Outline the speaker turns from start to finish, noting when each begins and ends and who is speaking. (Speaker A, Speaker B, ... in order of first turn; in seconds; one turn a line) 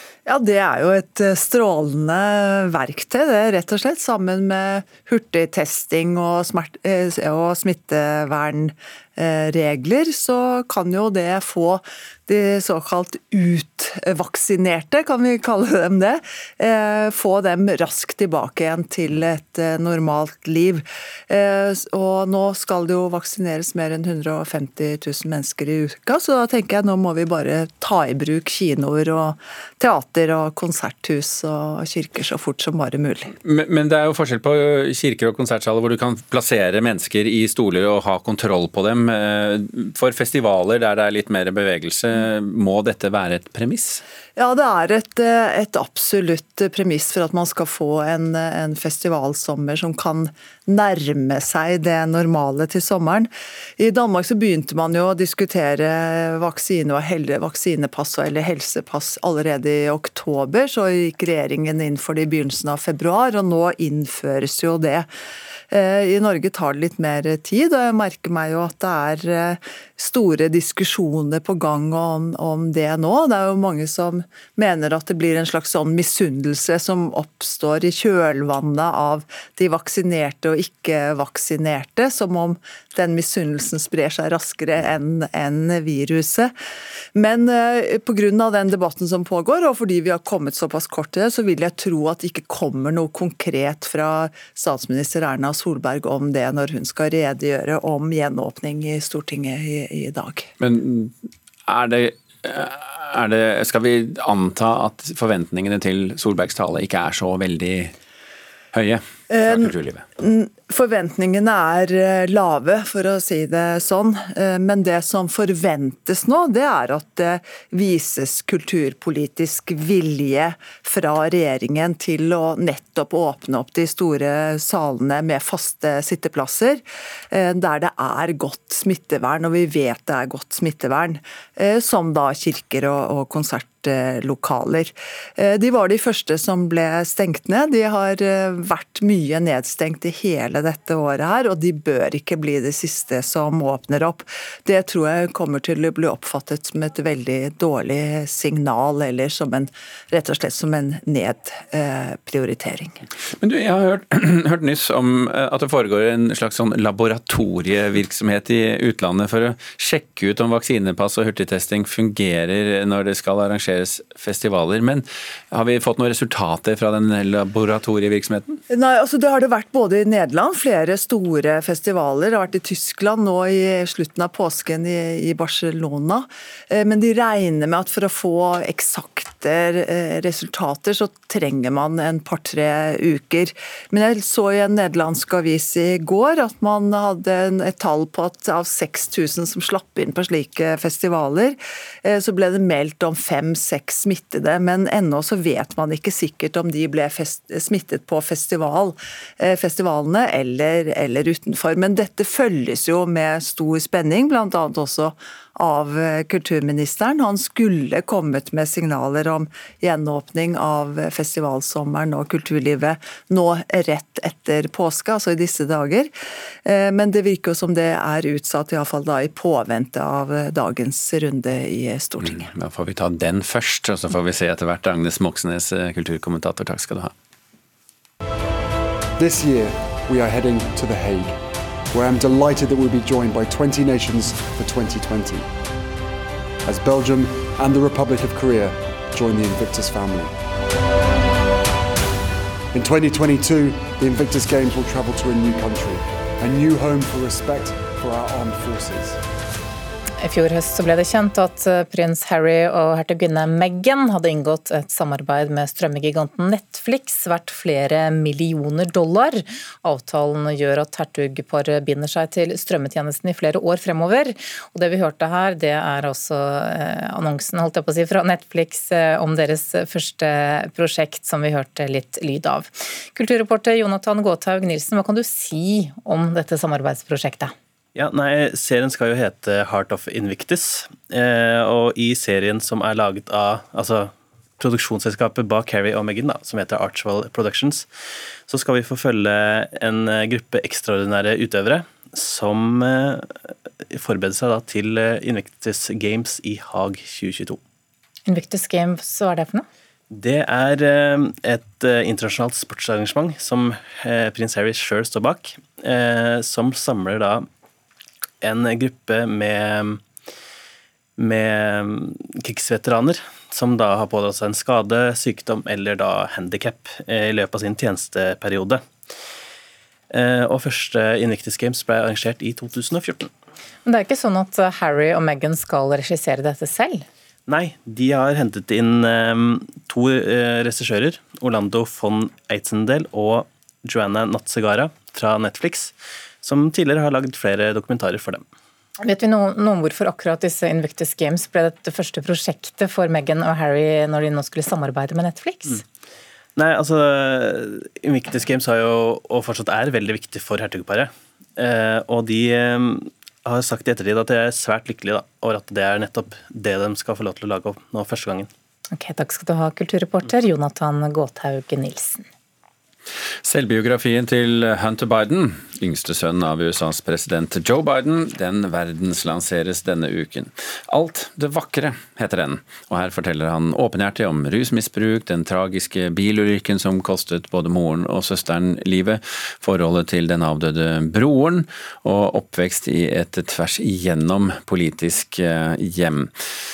Speaker A: 0.2-33.3
Speaker B: 33.4-44.0
Speaker A: 44.4-65.1
Speaker A: 65.7-86.5
Speaker A: 87.1-100.5
Speaker B: 100.6-101.1
Speaker B: 101.7-107.9
Speaker B: 108.7-110.0
Speaker A: 109.3-153.0
Speaker B: 153.4-168.6
Speaker A: 168.7-216.1
Speaker A: 216.6-222.5
Speaker B: 222.2-227.1
Speaker C: 229.2-235.5
Speaker C: 236.6-240.3
Speaker C: 242.7-249.2
Speaker D: 250.2-277.5
Speaker E: 277.9-287.9
Speaker E: 288.4-297.6
Speaker D: 298.3-299.6
Speaker E: 300.1-307.5
Speaker E: 308.4-310.0
Speaker E: 311.2-318.8
Speaker E: 320.1-323.3
Speaker D: 323.9-327.0
Speaker E: 327.5-338.4
Speaker D: 339.0-345.8
Speaker E: 346.6-358.5
Speaker D: 358.9-362.2
Speaker B: 363.4-386.3